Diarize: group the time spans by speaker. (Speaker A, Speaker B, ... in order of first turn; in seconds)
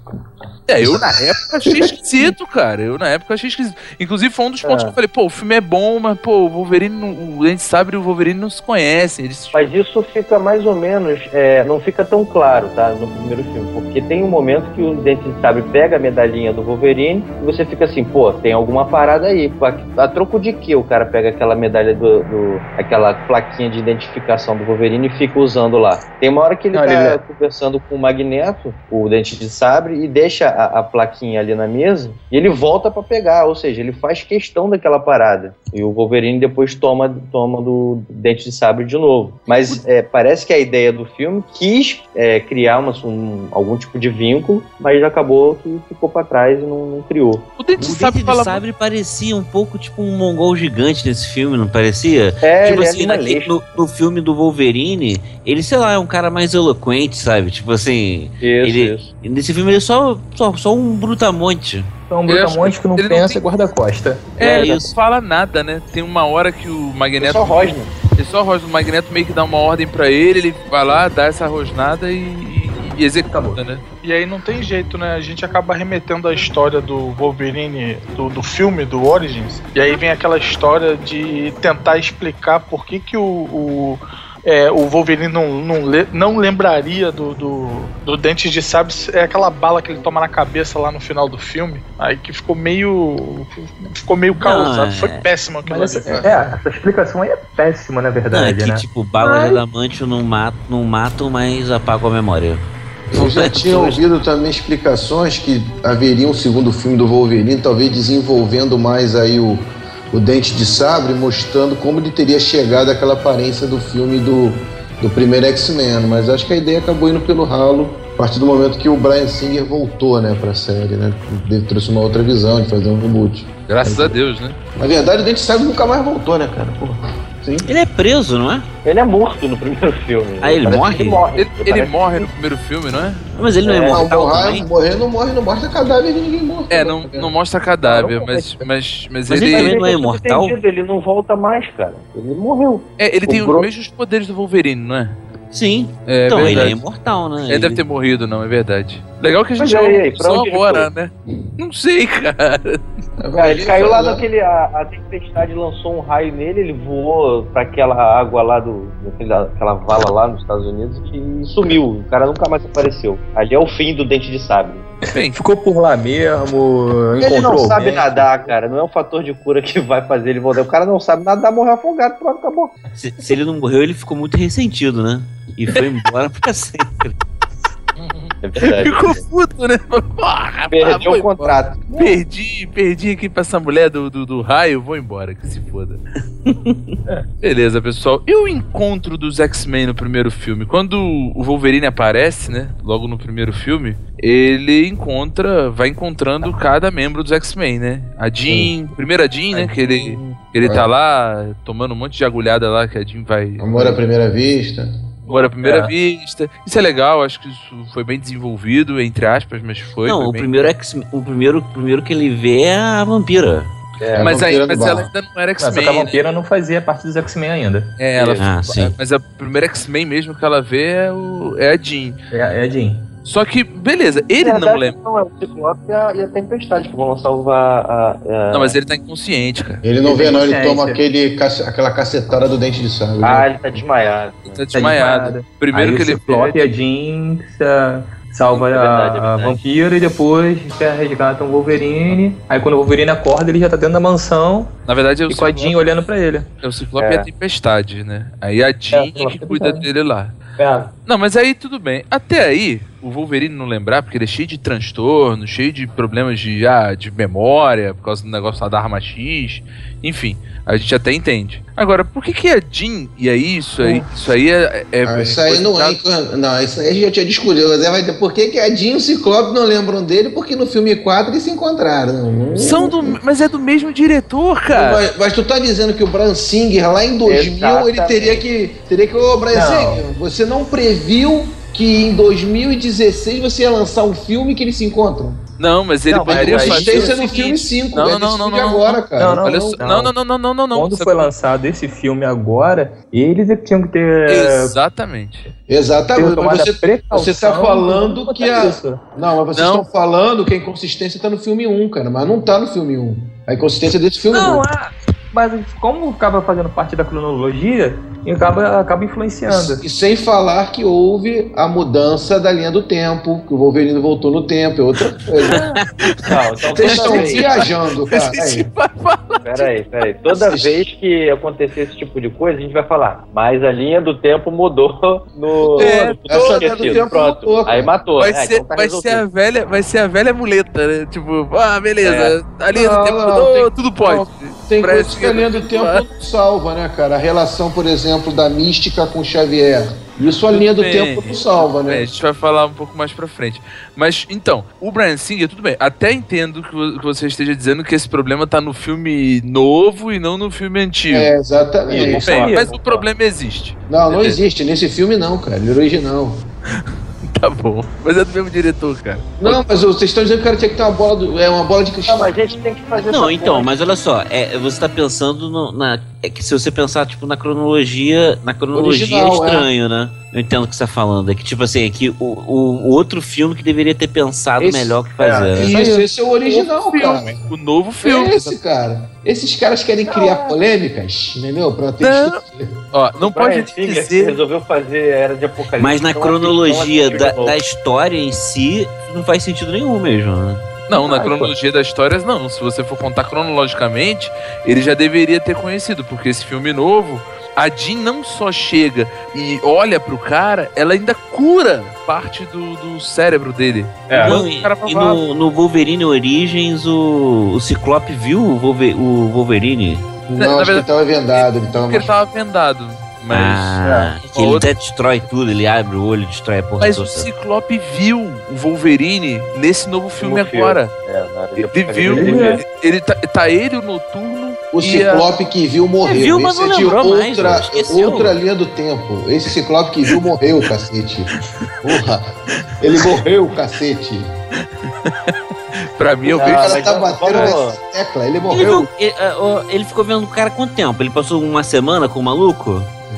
Speaker A: 0.7-9.7, 47.6-48.6, 62.3-63.4, 64.4-73.8, 123.7-124.6, 131.3-133.2, 136.7-139.8, 143.0-145.2, 146.1-146.8, 147.5-152.8, 165.1-165.4, 167.8-168.1, 178.2-186.0, 187.4-204.0, 205.3-210.7, 214.2-216.2, 218.0-222.2, 223.2-224.9, 228.5-229.8, 234.5-236.7, 244.9-245.8, 246.6-250.3, 251.1-266.0, 272.6-275.0, 285.6-291.3, 294.3-295.5, 299.5-299.8, 316.9-319.7, 325.8-327.0, 328.2-336.0, 340.5-351.3, 352.1-354.4, 357.2-359.6, 375.6-375.9, 376.4-378.6, 382.0-382.4, 382.9-384.4, 390.9-405.2, 410.3-414.7, 416.8-420.9, 421.6-425.3, 434.8-435.3, 435.9-437.6, 438.6-438.9
Speaker B: 0.8-2.3, 96.0-96.4, 103.1-124.2, 124.7-127.7, 133.8-137.3, 153.2-154.3, 200.6-200.9, 203.6-204.9, 214.2-215.1, 229.8-233.5, 265.0-273.2, 274.7-285.4, 286.2-289.4, 295.7-304.6, 309.5-315.6, 316.8-318.7, 320.3-320.8, 325.7-327.9, 332.7-342.1, 351.1-352.5, 353.9-356.4, 359.4-362.3, 368.7-369.7, 374.6-377.5, 378.0-382.7, 410.2-412.1, 424.7-434.3, 436.4-438.8
Speaker C: 4.6-5.0, 9.5-47.5, 52.4-53.6, 58.4-59.1, 67.2-67.9, 128.8-132.2, 133.6-134.3, 137.8-138.6, 139.3-143.7, 149.6-150.9, 153.4-164.9, 167.2-172.8, 178.4-179.2, 180.7-182.2, 205.2-205.9, 214.0-214.4, 218.2-218.5, 224.4-228.8, 233.2-234.6, 238.5-239.6, 247.0-247.2, 277.2-278.4, 316.2-317.6, 319.4-329.2, 332.0-332.4, 351.9-353.1, 362.1-363.7, 375.2-375.5, 380.1-380.5, 383.2-387.6, 391.0-391.5, 420.2-422.6, 436.3-437.8
Speaker D: 26.7-27.1, 62.1-64.3, 73.3-73.6, 95.6-99.6, 165.3-168.2, 215.6-217.9, 222.3-223.1, 230.0-231.0, 234.7-244.7, 245.3-246.5, 248.9-249.8, 250.6-250.9, 279.5-280.0, 286.1-287.1, 289.2-290.1, 290.7-294.8, 296.1-299.0, 304.3-309.8, 351.9-352.7, 404.1-404.4, 422.1-422.6
Speaker E: 47.8-61.9, 64.4-64.9, 94.4-95.3, 98.3-104.0, 127.6-128.7, 130.4-131.2, 133.3-134.7, 139.3-140.6, 145.5-147.8, 173.0-177.2, 186.5-186.7, 210.0-213.7, 218.4-218.9, 315.5-315.8, 316.8-317.4, 362.9-375.7, 385.8-390.7, 404.1-410.2, 413.3-417.3, 426.0-428.3, 438.5-442.9
Speaker F: 74.0-96.3